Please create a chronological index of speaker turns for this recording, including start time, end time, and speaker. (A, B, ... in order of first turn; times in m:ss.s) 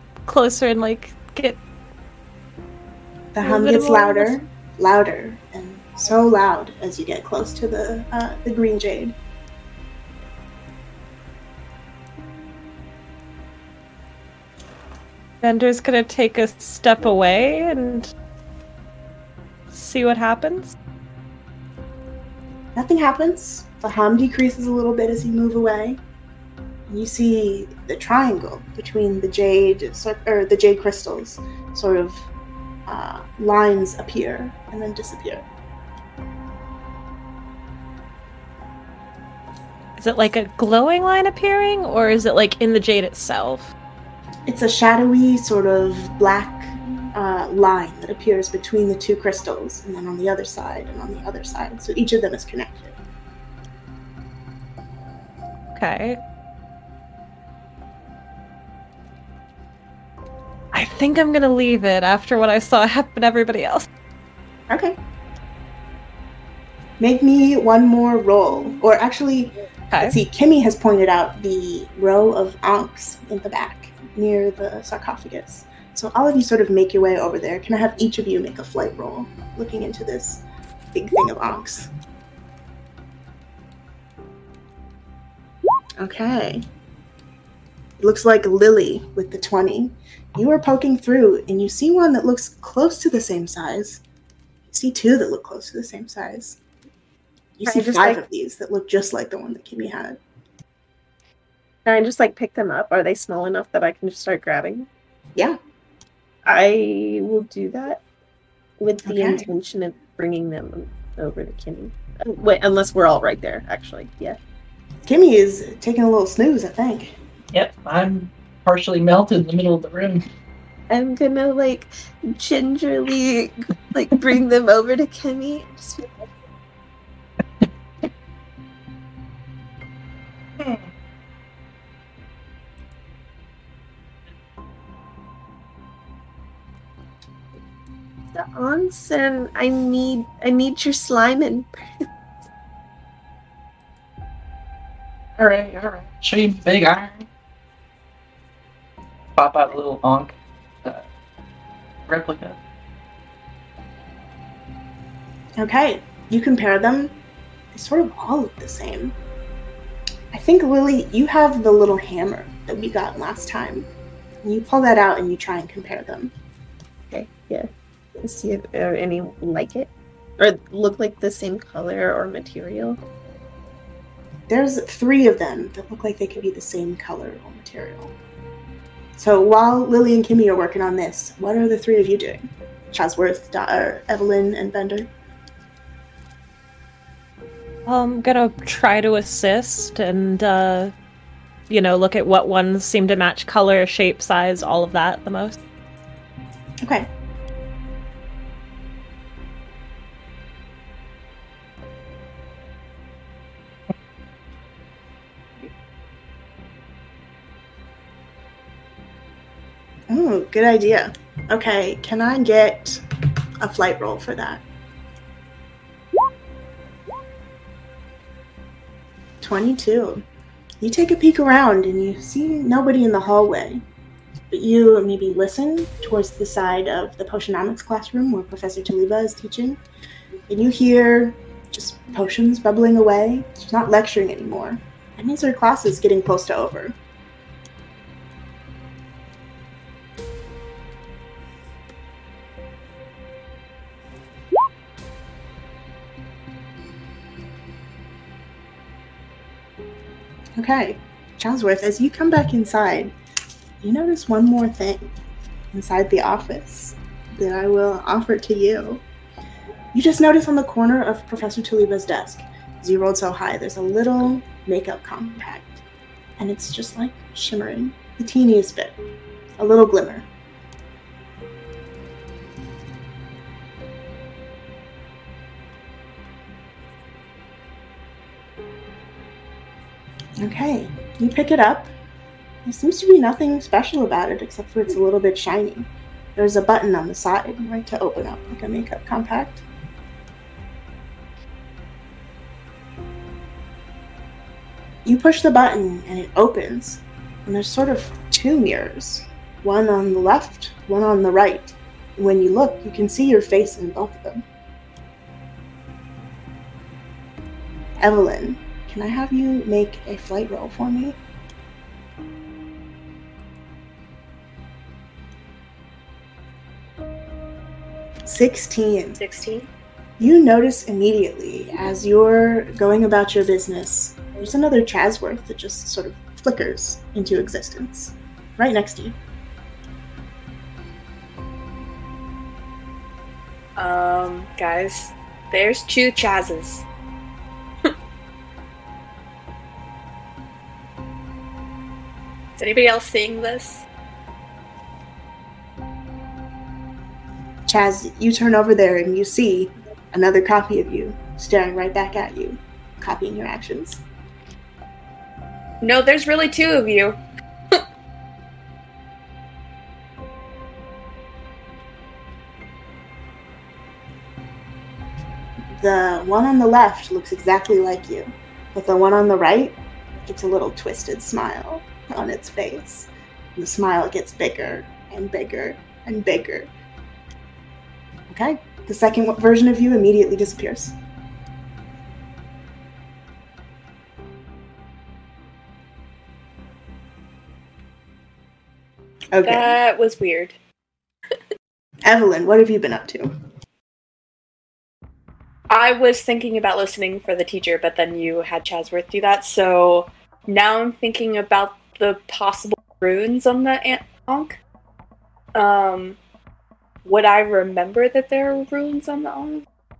0:00.2-0:01.6 A
0:03.3-0:09.2 B
0:03.4-0:04.4 A
0:15.4-0:18.1 A
0:19.7-0:20.7 A
0:22.7-0:26.0 B
0:26.9-0:32.3 B
0:32.9-0:35.4 B
0:40.0-0:43.7 A
0:44.5-0:53.0 B
0:55.7-0:56.2 A
1:00.7-1:03.9 A
1:04.7-1:05.0 B
1:07.0-1:21.9 B
1:09.9-1:10.2 A
1:26.0-1:26.6 B
1:28.0-1:34.0 B
1:34.7-1:36.6 B
1:37.6-1:40.2 B
1:37.7-1:38.2 C
1:41.8-1:44.9 C
1:46.4-1:48.0 C
1:48.8-1:54.4 C
1:49.0-1:49.4 B
1:55.0-1:57.1 B
1:57.5-2:00.2 D
2:00.9-2:06.1 C
2:10.6-2:10.8 D
2:18.3-2:22.1 C
2:25.4-2:27.2 D
2:29.4-2:31.0 D
2:32.1-2:32.6 D
2:35.6-2:37.1 B
2:37.7-2:39.2 B
2:40.3-2:43.9 B
2:44.4-2:46.3 B
2:47.1-2:53.0 C
2:54.5-2:58.1 B
2:59.2-3:05.1 B
3:07.8-3:10.9 A
3:11.7-3:15.6 A
3:16.8-3:17.1 B
3:30.1-3:33.0 B
3:33.6-3:34.6 B
3:39.4-3:40.2 B
3:40.8-3:43.8 B
3:44.5-3:49.8 B
3:50.5-3:57.0 B
4:10.6-4:13.1 B
4:13.8-4:15.1 B
4:15.7-4:19.0 B
4:19.9-4:25.8 B
4:26.4-4:29.0 B
4:29.6-4:30.3 B
4:40.4-4:41.9 B
4:42.6-4:49.6 B
4:55.0-5:04.4 B
5:08.0-5:11.2 B
5:18.2-5:19.2 B
5:19.2-5:19.7 E
5:20.2-5:29.2 B
5:33.8-5:36.8 E
5:42.6-5:43.8 E
5:47.7-5:54.0 B
5:55.8-5:57.2 E
6:05.8-6:16.7 B
6:18.3-6:21.0 B
6:29.3-6:29.8 B
6:29.4-6:30.5 E
6:32.0-6:33.3 B
6:35.7-6:44.6 E
6:45.5-6:46.2 E
6:47.0-6:49.6 E